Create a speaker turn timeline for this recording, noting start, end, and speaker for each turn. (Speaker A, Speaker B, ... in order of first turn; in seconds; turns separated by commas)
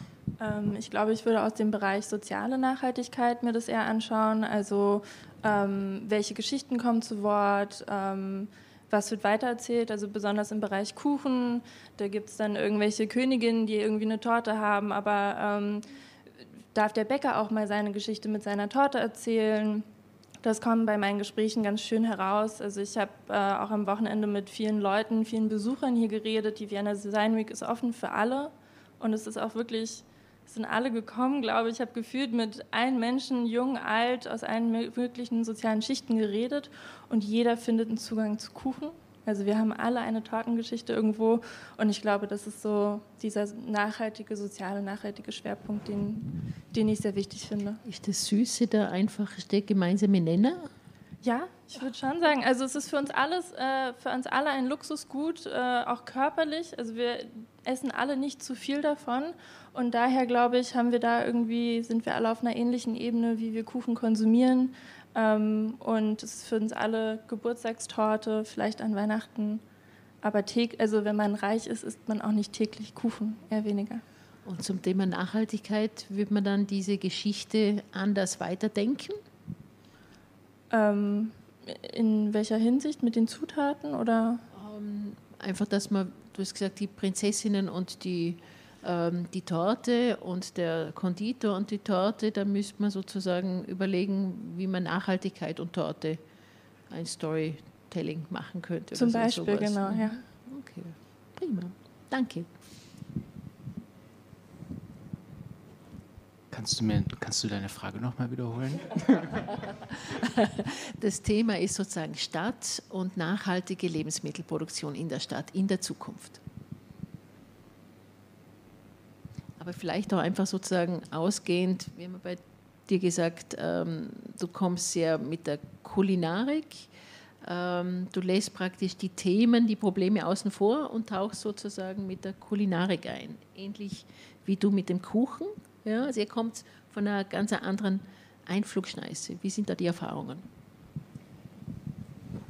Speaker A: 0.4-15.8, Speaker A: 16.7-19.9, Speaker A: 20.4-47.8, Speaker B: 47.8-50.7, Speaker A: 51.2-69.6, Speaker A: 70.2-74.0, Speaker B: 74.4-79.2, Speaker A: 80.7-84.4, Speaker B: 84.5-96.2, Speaker B: 96.9-102.5, Speaker A: 98.9-100.2, Speaker C: 106.5-109.5, Speaker B: 110.0-116.4, Speaker B: 119.6-126.9, Speaker B: 127.4-140.4